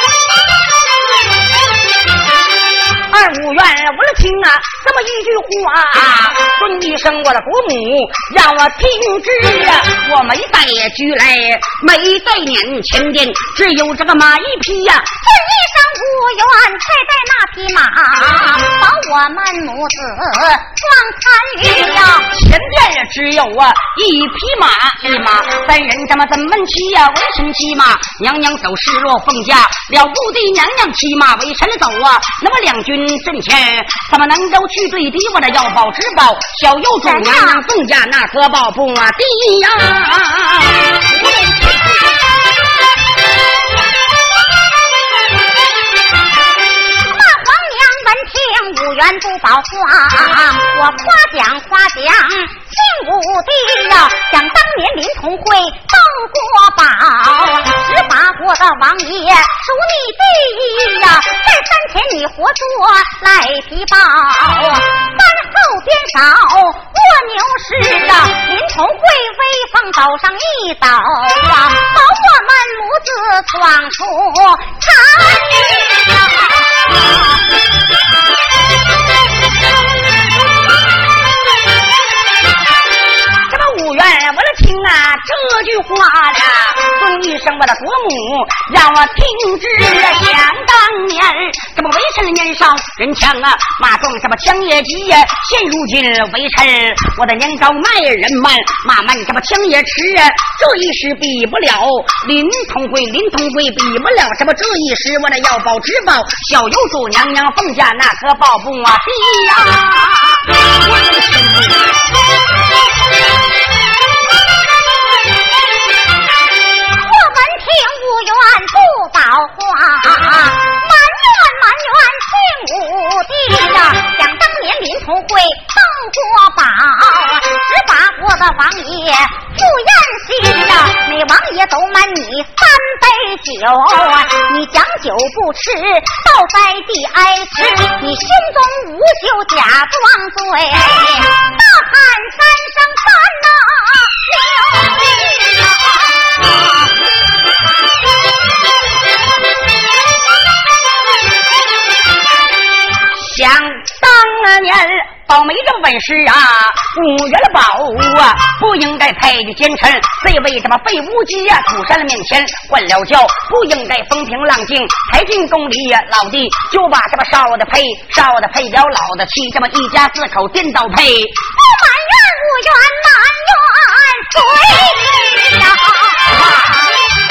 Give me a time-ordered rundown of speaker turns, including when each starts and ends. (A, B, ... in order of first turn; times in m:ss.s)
0:03.1-0:15.1 A
0:15.2-0:22.3 B
0:22.3-0:42.0 A
0:37.0-0:37.6 B
0:46.9-1:17.2 B
1:23.5-1:51.9 A
1:56.9-2:26.9 B
2:33.1-2:51.4 A
2:51.6-2:56.4 B